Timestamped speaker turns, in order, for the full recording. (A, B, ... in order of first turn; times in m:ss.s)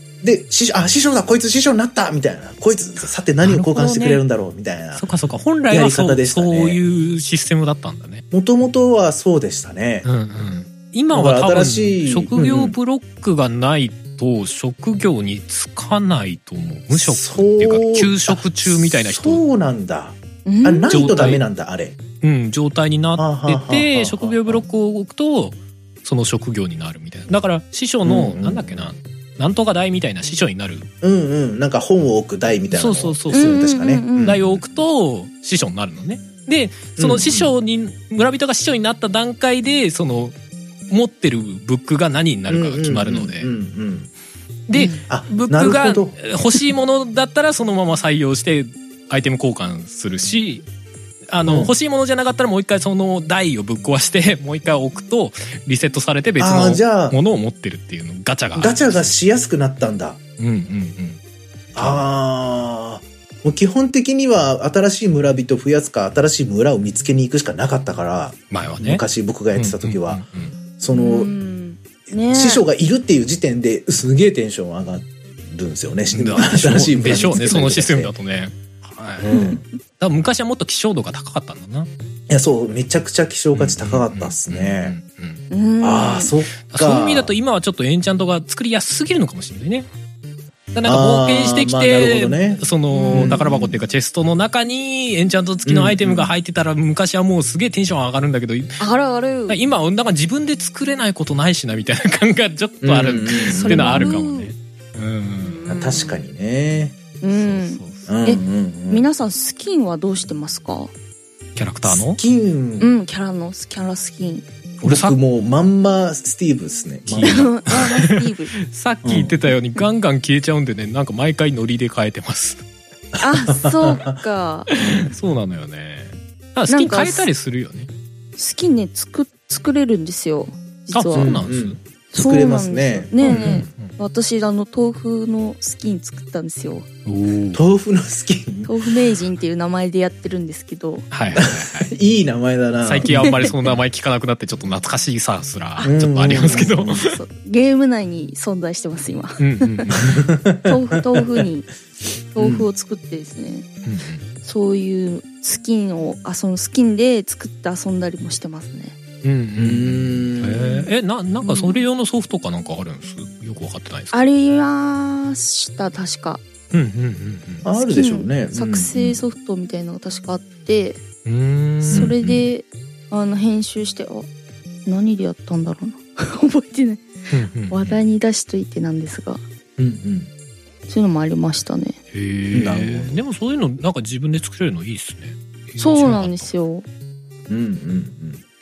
0:00.2-0:05.0 A
0:03.4-0:04.2 B
0:04.9-0:08.2 B
0:05.7-0:06.8 A
0:08.3-0:10.1 A
0:10.0-0:19.4 B
0:11.1-0:12.7 A
0:16.9-0:22.0 A
0:20.4-0:21.1 C
0:20.9-0:21.4 B
0:22.2-0:30.9 B
0:23.2-0:24.6 A
0:28.0-0:28.9 A
0:31.0-0:34.6 A
0:32.7-0:33.7 B
0:33.3-0:34.4 C
0:34.2-0:40.3 B
0:37.0-0:37.5 A
0:40.9-0:43.5 B
0:42.5-0:44.1 A
0:44.7-0:50.6 B
0:44.7-0:45.0 C
0:45.0-0:46.2 A
0:51.3-0:59.1 B
0:51.4-0:51.7 A
0:56.4-0:57.2 A
0:58.6-1:00.2 A
1:00.4-1:01.2 B
1:01.7-1:02.0 B
1:01.8-1:10.2 A
1:08.5-1:10.5 B
1:10.8-1:11.3 A
1:10.9-1:12.6 C
1:12.2-1:18.1 A
1:16.1-1:21.9 B
1:19.2-1:19.6 A
1:22.3-1:25.0 A
1:23.5-1:25.4 B
1:25.5-1:26.3 C
1:25.8-1:27.4 A
1:26.6-1:29.9 B
1:30.7-1:38.8 B
1:30.8-1:33.8 A
1:32.9-1:33.4 C
1:35.6-1:36.3 A
1:38.8-1:39.6 C
1:39.5-1:45.6 B
1:42.8-1:44.2 A
1:43.5-1:44.5 C
1:45.4-1:46.2 C
1:45.7-1:47.0 A
1:47.2-1:50.9 C
1:47.3-1:48.1 B
1:48.1-1:49.0 A
1:51.6-1:52.2 B
1:51.8-1:52.9 A
1:52.8-1:54.5 C
1:54.8-1:55.2 B
1:54.8-1:57.5 A
1:57.1-2:02.6 B
1:57.2-1:58.5 C
1:59.0-1:59.4 A
2:03.2-2:04.2 A
2:03.2-2:04.7 C
2:04.7-2:07.9 B
2:04.8-2:05.1 A
2:06.7-2:07.3 C
2:08.4-2:11.4 C
2:10.9-2:11.8 B
2:11.1-2:13.7 A
2:12.1-2:16.8 C
2:13.2-2:13.9 B
2:17.0-2:17.6 B
2:17.5-2:18.7 A
2:18.6-2:21.1 C
2:21.1-2:21.9 B
2:21.4-2:23.7 A
2:22.8-2:27.1 B
2:23.1-2:23.5 C
2:25.8-2:29.8 C
2:25.8-2:27.0 A
2:29.4-2:30.3 B
2:29.9-2:31.4 A
2:30.6-2:31.7 C
2:32.3-2:33.6 C
2:32.4-2:32.7 A
2:33.8-2:34.2 B
2:34.4-2:39.0 C
2:39.2-2:44.2 B
2:39.6-2:40.9 A
2:41.4-2:41.8 C
2:44.1-2:46.4 C
2:46.7-2:47.6 B
2:47.6-2:49.2 A
2:47.8-2:51.0 C
2:51.2-2:52.3 B
2:51.9-2:52.4 A
2:51.9-2:54.3 C
2:54.8-2:57.1 C
2:57.3-2:58.0 B
2:57.7-2:59.4 C
2:59.8-3:00.3 A
3:00.9-3:02.0 C
3:02.1-3:06.5 B
3:02.5-3:03.2 A
3:05.8-3:06.8 C
3:07.5-3:08.4 A